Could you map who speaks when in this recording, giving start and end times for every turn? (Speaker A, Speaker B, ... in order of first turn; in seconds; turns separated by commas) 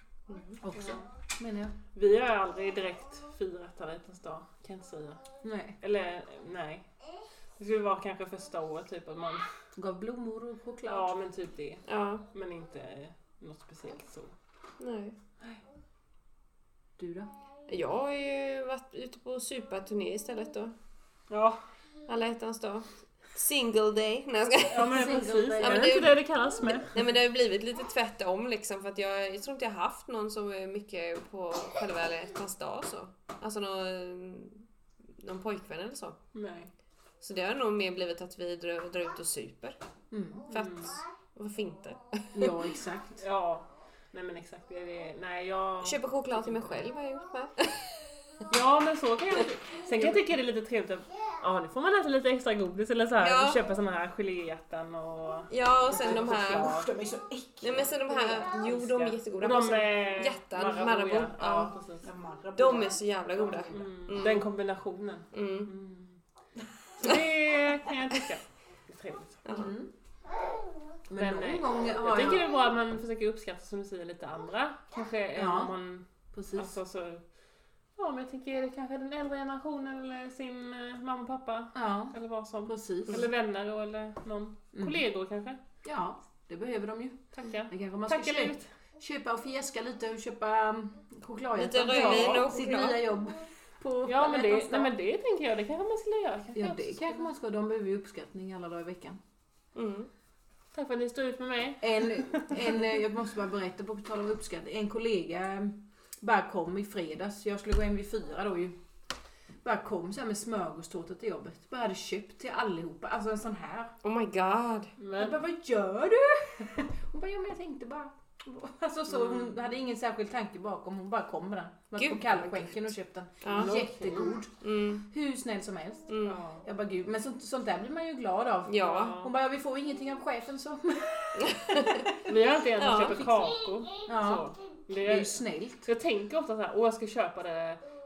Speaker A: 0.3-0.6, Speaker B: 0.6-1.8, Speaker C: 0.7-1.1, Speaker C: 1.9-5.2, Speaker B: 5.4-5.8, Speaker C: 5.8-6.9, Speaker C: 7.6-9.5, Speaker B: 9.8-11.1, Speaker C: 10.9-14.3, Speaker A: 11.9-12.2, Speaker A: 14.8-15.2, Speaker B: 17.0-17.3, Speaker A: 17.7-20.8, Speaker C: 21.3-21.6, Speaker A: 22.1-25.1, Speaker C: 24.7-27.0, Speaker B: 24.8-26.1, Speaker A: 25.6-26.2, Speaker A: 26.9-34.6, Speaker A: 35.2-36.2, Speaker C: 36.3-36.7, Speaker A: 37.2-39.8, Speaker B: 40.1-40.5, Speaker A: 40.5-42.6, Speaker C: 40.5-41.0, Speaker B: 42.3-43.2, Speaker C: 43.2-46.8, Speaker A: 45.8-48.4, Speaker C: 48.5-56.9, Speaker A: 53.2-53.6, Speaker A: 55.5-56.8, Speaker B: 55.9-58.2, Speaker A: 57.6-61.7, Speaker C: 58.1-62.0, Speaker B: 62.0-64.0, Speaker A: 62.5-64.5, Speaker C: 63.7-66.2, Speaker A: 65.3-65.7, Speaker C: 67.0-69.6, Speaker A: 69.5-69.7, Speaker B: 69.5-69.9, Speaker B: 71.1-72.5, Speaker C: 71.2-77.2, Speaker B: 75.3-75.7, Speaker B: 76.3-76.8, Speaker C: 78.0-85.6, Speaker B: 81.7-83.3, Speaker B: 84.8-85.0, Speaker B: 85.8-94.9, Speaker C: 87.3-88.7, Speaker A: 91.6-93.0, Speaker C: 91.9-92.4, Speaker C: 94.0-97.2, Speaker B: 96.5-99.2, Speaker A: 99.8-100.1, Speaker C: 100.7-103.0, Speaker B: 101.8-108.8, Speaker B: 109.6-113.9, Speaker A: 114.0-114.9, Speaker C: 115.0-115.4, Speaker B: 115.2-132.3, Speaker C: 119.1-119.5, Speaker A: 122.0-122.9, Speaker A: 123.4-123.9, Speaker C: 123.5-124.4, Speaker A: 124.6-125.0, Speaker A: 126.1-126.4, Speaker C: 126.2-126.7, Speaker A: 128.7-129.2, Speaker C: 128.8-129.3, Speaker A: 131.4-132.1, Speaker C: 132.2-137.8, Speaker A: 132.8-133.4, Speaker B: 134.1-135.9